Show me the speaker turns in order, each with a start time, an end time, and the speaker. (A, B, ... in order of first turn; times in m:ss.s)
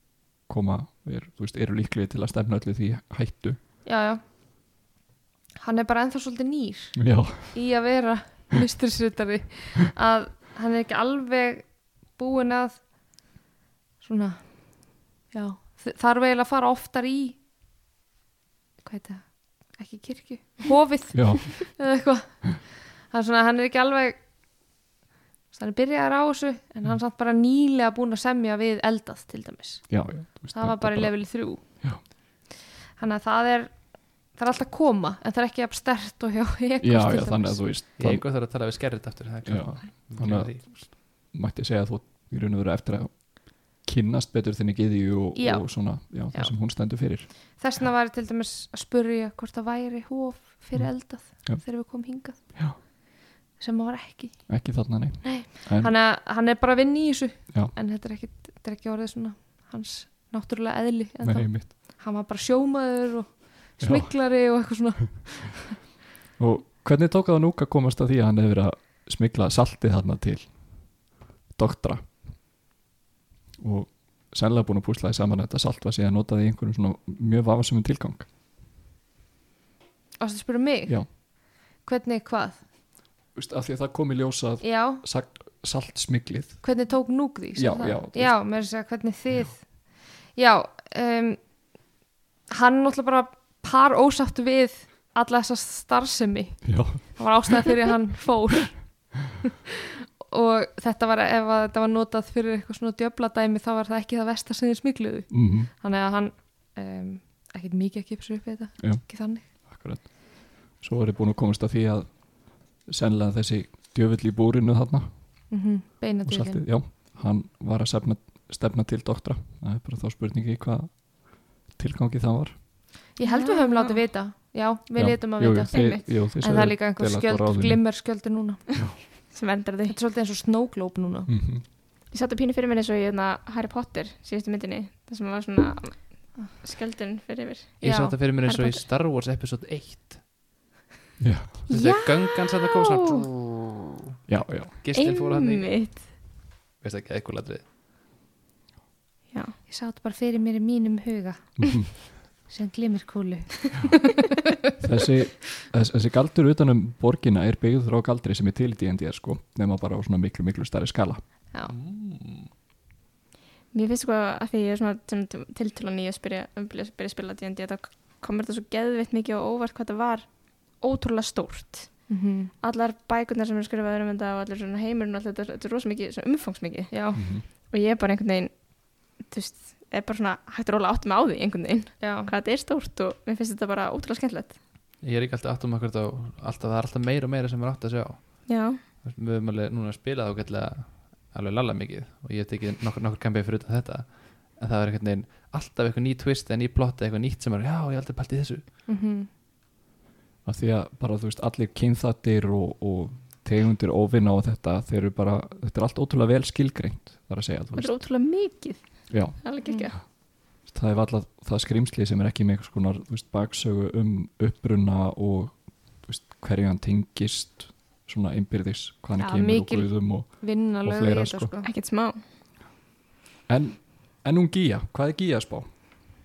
0:00.5-0:03.6 A
0:03.8-0:04.2 B
0:05.6-0:12.8 B
0:07.0-0:07.6 A
0:14.0-0:17.4 B
0:18.8-0:24.2 B
0:21.1-0:21.7 A
0:25.5-0:32.2 B
0:29.9-0:32.0 A
0:32.9-0:37.6 B
0:36.8-0:38.2 A
0:38.0-0:40.9 C
0:39.5-0:47.3 A
0:45.4-0:46.6 B
0:47.3-0:52.9 B
0:50.8-0:51.6 A
0:53.6-0:54.6 B
0:54.5-0:55.9 A
0:55.2-1:05.7 B
1:01.2-1:01.7 A
1:03.8-1:04.3 A
1:06.4-1:12.2 A
1:13.6-1:18.3 A
1:20.2-1:22.6 B
1:23.3-1:26.7 A
1:24.6-1:25.0 B
1:26.6-1:31.5 B
1:27.6-1:28.4 A
1:32.5-1:39.2 B
1:36.6-1:37.4 A
1:40.2-1:49.5 B
1:45.3-1:45.7 A
1:48.8-1:55.5 A
1:55.5-1:56.6 B
1:56.2-2:02.6 A
2:03.2-2:09.3 B
2:03.2-2:04.0 D
2:05.0-2:07.8 A
2:05.7-2:06.0 D
2:09.3-2:10.0 D
2:09.9-2:11.3 B
2:11.3-2:11.6 A
2:12.1-2:17.9 D
2:17.8-2:18.2 B
2:17.8-2:20.3 C
2:18.4-2:18.8 D
2:21.2-2:21.6 A
2:21.7-2:22.4 D
2:21.7-2:24.0 C
2:24.3-2:24.8 A
2:24.8-2:26.3 C
2:24.9-2:26.1 D
2:26.8-2:27.6 C
2:29.3-2:29.6 D
2:29.7-2:34.2 B
2:31.6-2:31.9 A
2:34.8-2:41.2 A
2:41.7-2:42.5 C
2:43.7-3:04.6 D
2:52.1-2:52.5 B
2:56.9-2:57.2 B
2:57.2-2:57.4 A
3:02.0-3:02.3 B
3:05.0-3:18.6 C
3:08.5-3:08.8 D
3:18.9-3:19.3 B
3:20.4-3:28.0 A
3:27.8-3:30.0 D
3:29.1-3:29.4 A
3:29.6-3:29.9 B
3:30.6-3:41.5 A
3:39.2-3:41.7 B
3:41.6-3:42.2 D
3:43.5-3:45.7 A